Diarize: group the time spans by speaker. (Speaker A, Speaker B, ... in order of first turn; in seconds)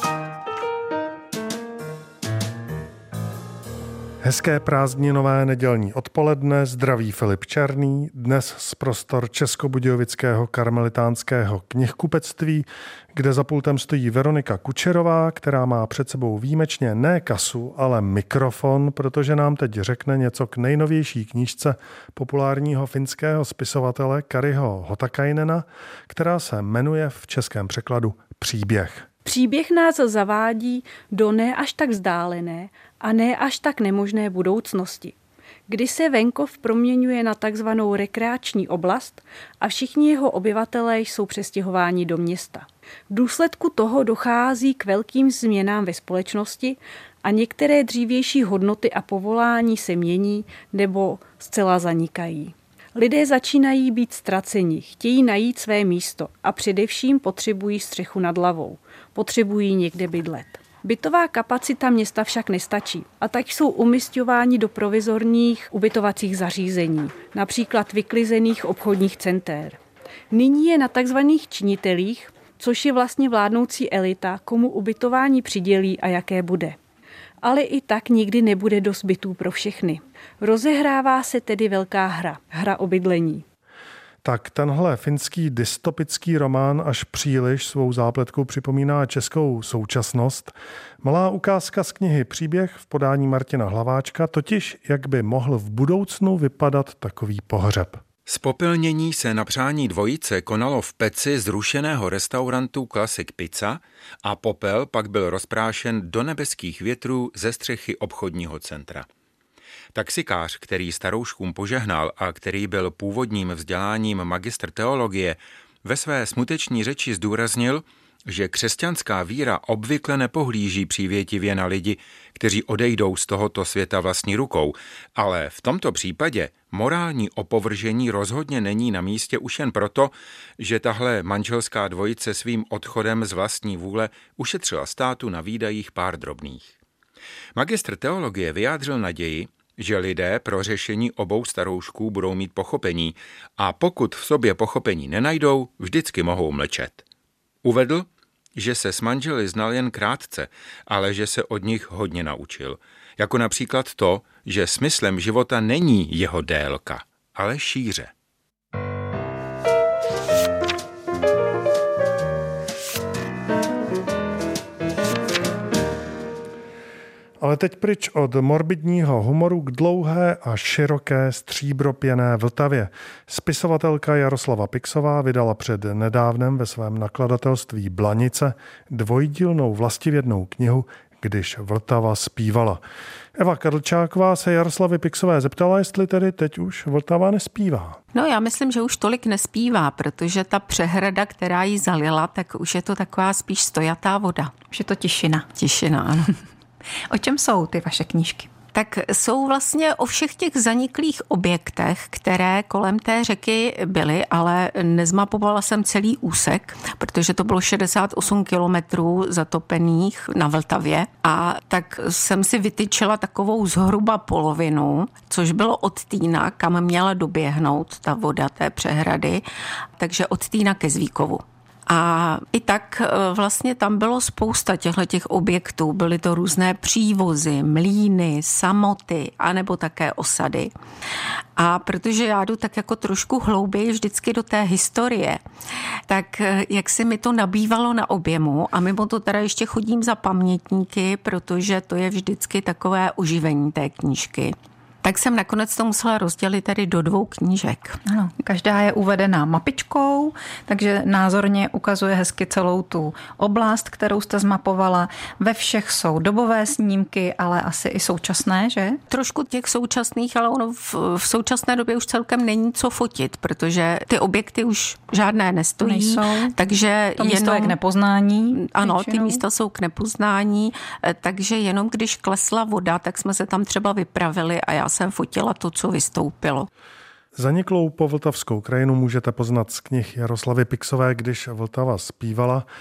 Speaker A: 4.2-29.1, 84.2-98.0, 167.4-182.8, 183.4-188.0, 277.4-282.7
Speaker B: 29.2-35.1, 35.7-69.8, 70.3-76.8, 77.4-83.4
Speaker C: 98.3-109.1, 109.9-136.8, 137.6-147.0, 147.6-158.1
Speaker D: 188.1-194.5, 195.6-196.3, 198.7-219.4, 220.0-230.7, 231.6-235.4, 236.1-248.0, 259.1-267.8, 268.5-276.7
Speaker E: 194.8-195.4, 197.1-198.5, 248.1-259.0, 265.9-266.5, 267.2-269.4